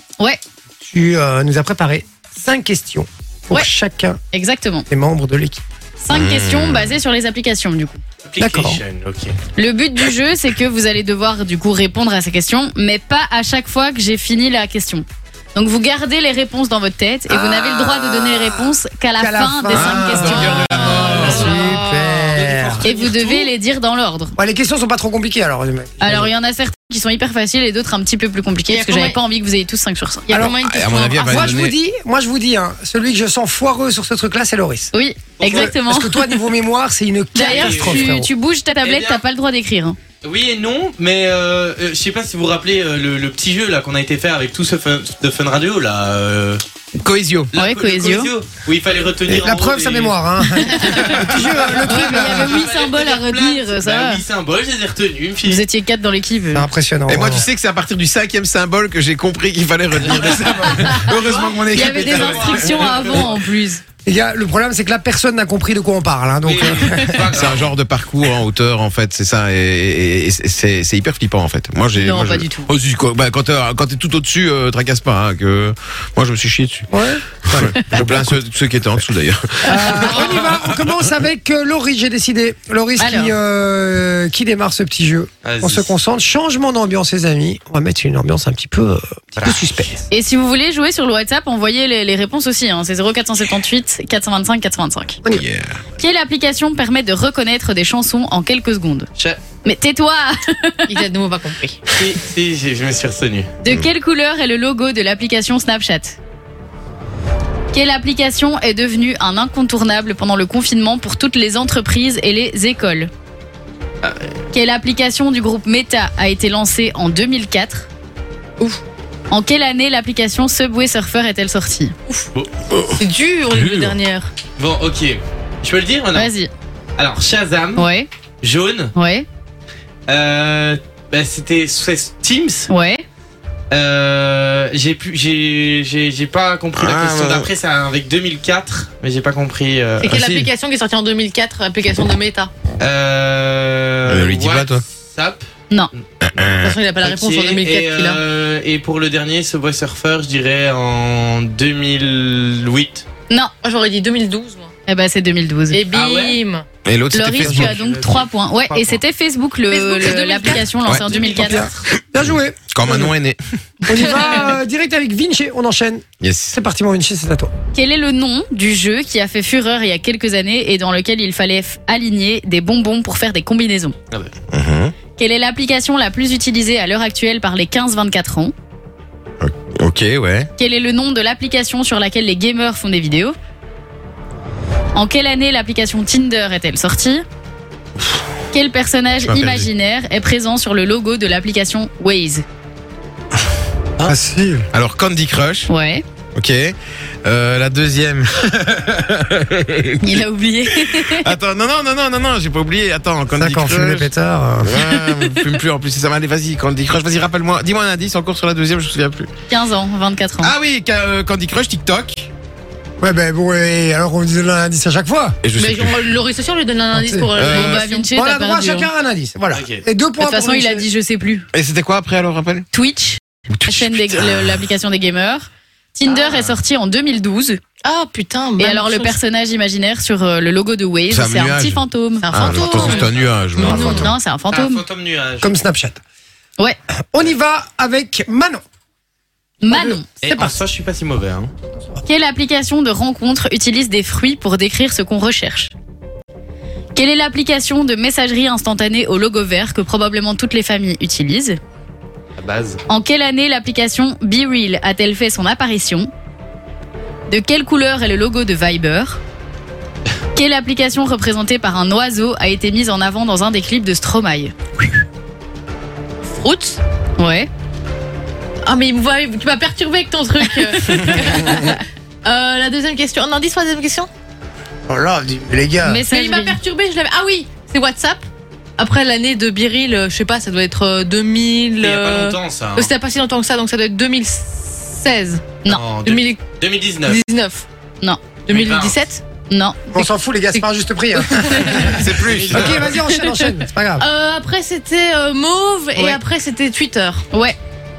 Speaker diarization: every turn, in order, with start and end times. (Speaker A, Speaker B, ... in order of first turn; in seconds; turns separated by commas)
Speaker A: 0.8-4.2, Speaker B: 4.3-4.9, Speaker A: 4.9-5.6, Speaker B: 6.0-8.0, Speaker C: 6.1-6.9, Speaker D: 8.3-9.4, Speaker A: 8.4-8.8, Speaker B: 9.5-21.6, Speaker A: 17.3-18.6, Speaker A: 19.2-22.9, Speaker C: 19.7-21.5, Speaker E: 20.8-22.5, Speaker D: 22.4-23.2, Speaker B: 22.8-24.4, Speaker E: 23.0-23.5, Speaker A: 24.4-26.3, Speaker B: 26.0-30.3, Speaker E: 28.7-29.2, Speaker E: 30.3-31.6, Speaker C: 30.4-31.8, Speaker A: 31.3-34.9, Speaker B: 34.9-36.4, Speaker D: 35.4-35.7, Speaker A: 35.5-38.3, Speaker B: 37.3-40.0, Speaker D: 37.4-38.2, Speaker D: 38.8-39.2, Speaker D: 40.2-46.6, Speaker C: 47.0-47.5, Speaker D: 47.5-50.2, Speaker B: 47.5-48.3, Speaker A: 49.3-52.7, Speaker B: 50.5-51.1, Speaker D: 50.9-55.6, Speaker B: 51.8-54.2, Speaker B: 55.4-56.7, Speaker A: 56.5-57.5, Speaker C: 57.1-63.2, Speaker D: 60.1-63.3, Speaker B: 61.7-63.8, Speaker A: 64.0-67.4, Speaker D: 66.4-67.8, Speaker C: 67.3-76.9, Speaker B: 72.0-72.7, Speaker A: 76.9-78.3, Speaker C: 77.5-81.0, Speaker A: 79.6-90.0, Speaker B: 83.0-83.3, Speaker D: 85.5-86.0, Speaker D: 89.4-89.9, Speaker B: 90.1-95.2, Speaker C: 95.3-95.8, Speaker B: 96.0-99.1, Speaker B: 99.6-101.0, Speaker E: 100.9-101.9, Speaker D: 101.9-103.5, Speaker B: 103.6-106.2, Speaker B: 107.7-113.1, Speaker B: 114.5-117.9, Speaker B: 119.3-122.0, Speaker C: 122.7-123.0, Speaker E: 123.0-124.3, Speaker C: 123.5-123.9, Speaker D: 124.6-126.3, Speaker B: 126.1-126.5, Speaker D: 127.0-127.9, Speaker B: 127.8-128.1, Speaker D: 128.4-128.9, Speaker B: 129.0-129.3, Speaker D: 130.1-132.7, Speaker B: 132.7-133.0, Speaker D: 133.7-140.5, Speaker C: 136.8-137.5, Speaker E: 140.0-142.5, Speaker D: 142.8-145.4, Speaker C: 144.1-144.8, Speaker C: 146.2-146.7, Speaker E: 146.6-148.2, Speaker D: 147.0-153.1, Speaker E: 153.6-154.8, Speaker B: 154.9-155.8, Speaker E: 155.7-156.7, Speaker D: 155.9-156.4, Speaker C: 156.8-157.8, Speaker B: 157.1-161.7, Speaker A: 157.4-157.7, Speaker D: 157.6-159.0, Speaker E: 159.7-161.4, Speaker D: 161.1-161.8, Speaker A: 161.3-163.1, Speaker C: 162.2-163.4, Speaker A: 163.8-167.5, Speaker E: 164.0-164.5, Speaker C: 166.2-166.6, Speaker B: 167.7-173.9, Speaker C: 174.5-175.0, Speaker B: 175.1-178.5, Speaker C: 179.4-180.5, Speaker B: 180.6-183.3, Speaker B: 184.9-187.2, Speaker B: 188.5-192.4, Speaker C: 189.2-189.7, Speaker A: 194.0-194.7, Speaker C: 194.7-195.7, Speaker B: 195.7-196.1, Speaker C: 196.3-200.2, Speaker B: 200.0-201.3, Speaker C: 200.9-209.3, Speaker A: 203.3-204.9, Speaker B: 209.5-210.5, Speaker C: 210.4-212.3, Speaker A: 213.0-215.4, Speaker C: 215.4-216.0, Speaker E: 215.6-218.1, Speaker A: 216.9-217.5, Speaker C: 217.3-217.8, Speaker B: 217.6-218.9, Speaker A: 218.1-220.9, Speaker D: 219.5-219.8, Speaker B: 220.2-221.5, Speaker C: 221.5-222.7, Speaker B: 222.7-227.6, Speaker C: 223.6-224.5, Speaker E: 226.1-226.4, Speaker E: 227.8-229.2, Speaker B: 228.6-232.4, Speaker C: 231.1-234.1, Speaker E: 232.2-234.2, Speaker D: 232.7-233.3, Speaker B: 233.7-234.8, Speaker D: 234.5-235.6, Speaker A: 235.4-236.0, Speaker A: 237.1-238.6, Speaker B: 239.6-240.1, Speaker A: 239.7-240.6, Speaker D: 240.2-241.5, Speaker B: 242.1-245.7, Speaker B: 246.9-251.6, Speaker D: 252.4-252.8, Speaker B: 252.9-256.1, Speaker B: 257.3-259.2, Speaker B: 260.4-264.5, Speaker E: 266.2-266.8, Speaker B: 267.2-267.5, Speaker E: 268.6-274.1, Speaker A: 274.9-276.1, Speaker B: 275.8-276.6, Speaker E: 276.1-278.2, Speaker E: 278.8-286.4, Speaker D: 281.8-282.9, Speaker D: 285.7-287.2, Speaker E: 287.1-287.7, Speaker B: 288.0-288.3, Speaker E: 288.3-289.2, Speaker D: 288.5-289.0, Speaker B: 289.5-290.0, Speaker A: 289.9-294.1, Speaker E: 290.0-293.4, Speaker C: 291.9-292.9, Speaker D: 292.2-292.8, Speaker E: 294.0-297.2, Speaker B: 297.3-297.6